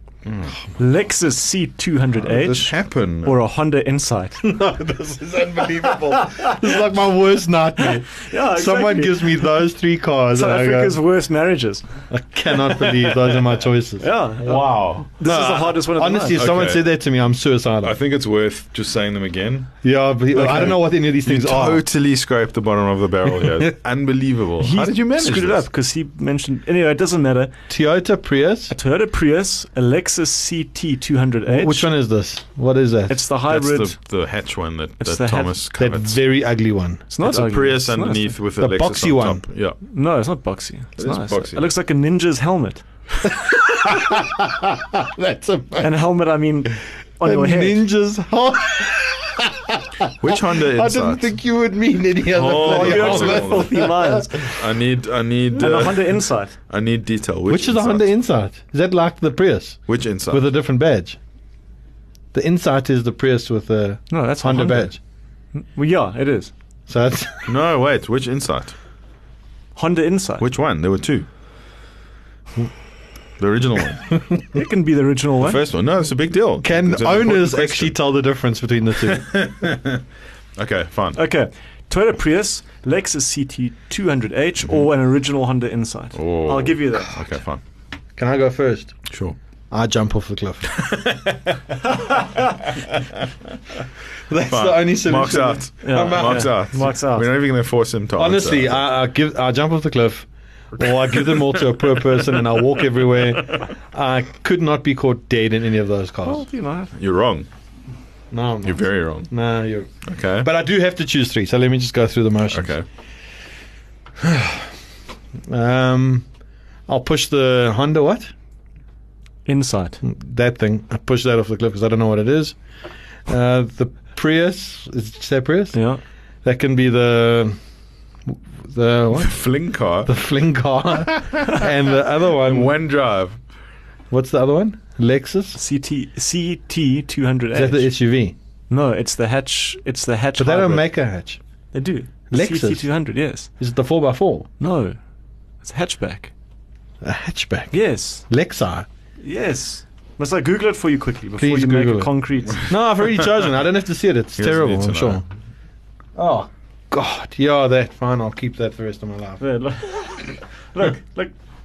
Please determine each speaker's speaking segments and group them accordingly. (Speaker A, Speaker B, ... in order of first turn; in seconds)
Speaker A: 0.2-0.6, 2.2-3.3, 14.4-15.1, 16.4-16.9, 17.8-19.7, 21.2-25.7, 33.5-36.2, 37.2-39.8, 41.0-41.7, 50.2-51.3, 52.3-58.1, 59.9-60.4, 67.5-68.8, 70.4-71.3, 73.4-74.2, 75.4-78.0, 79.0-80.0, 80.6-81.2, 86.1-87.6, 89.1-89.4, 94.5-98.8, 107.0-107.5, 108.7-109.3, 110.0-110.5, 112.5-112.8, 129.2-130.1, 131.1-131.6, 132.4-133.4, 154.4-155.2
Speaker B: 0.8-4.5, 6.2-6.5, 8.2-9.5, 10.3-11.9, 14.0-16.4, 20.4-20.7, 24.6-27.5, 28.7-31.9, 33.1-34.0, 35.0-35.6, 37.1-38.3, 39.9-42.8, 45.8-47.8, 52.6-54.4, 55.6-56.5, 64.1-65.0, 65.5-66.5, 69.8-70.5, 74.5-75.6, 81.2-87.3, 95.8-97.3, 106.2-106.9, 119.5-120.0, 125.7-126.0, 135.6-137.9, 138.7-140.9, 141.7-143.5, 144.6-145.0, 145.6-146.3, 147.7-148.3, 149.2-152.7, 159.4-161.3
Speaker C: 4.4-11.0, 12.1-14.3, 15.2-18.0, 19.8-21.8, 23.4-23.7, 27.7-28.7, 31.5-33.2, 35.8-37.0, 38.6-39.4, 43.2-45.9, 47.2-54.5, 57.5-61.2, 62.3-65.0, 66.9-67.5, 76.6-79.8, 88.2-89.0, 89.7-91.3, 94.3-96.6, 98.2-106.5, 108.3-112.8, 114.2-114.7, 115.5-116.3, 116.9-118.3, 120.0-122.6, 123.3-125.8, 126.4-127.6, 128.3-129.4, 130.0-132.7, 134.1-135.6, 137.5-138.3, 140.4-141.4, 142.3-142.9, 143.6-144.5, 147.0-148.9, 151.4-155.2, 156.2-159.4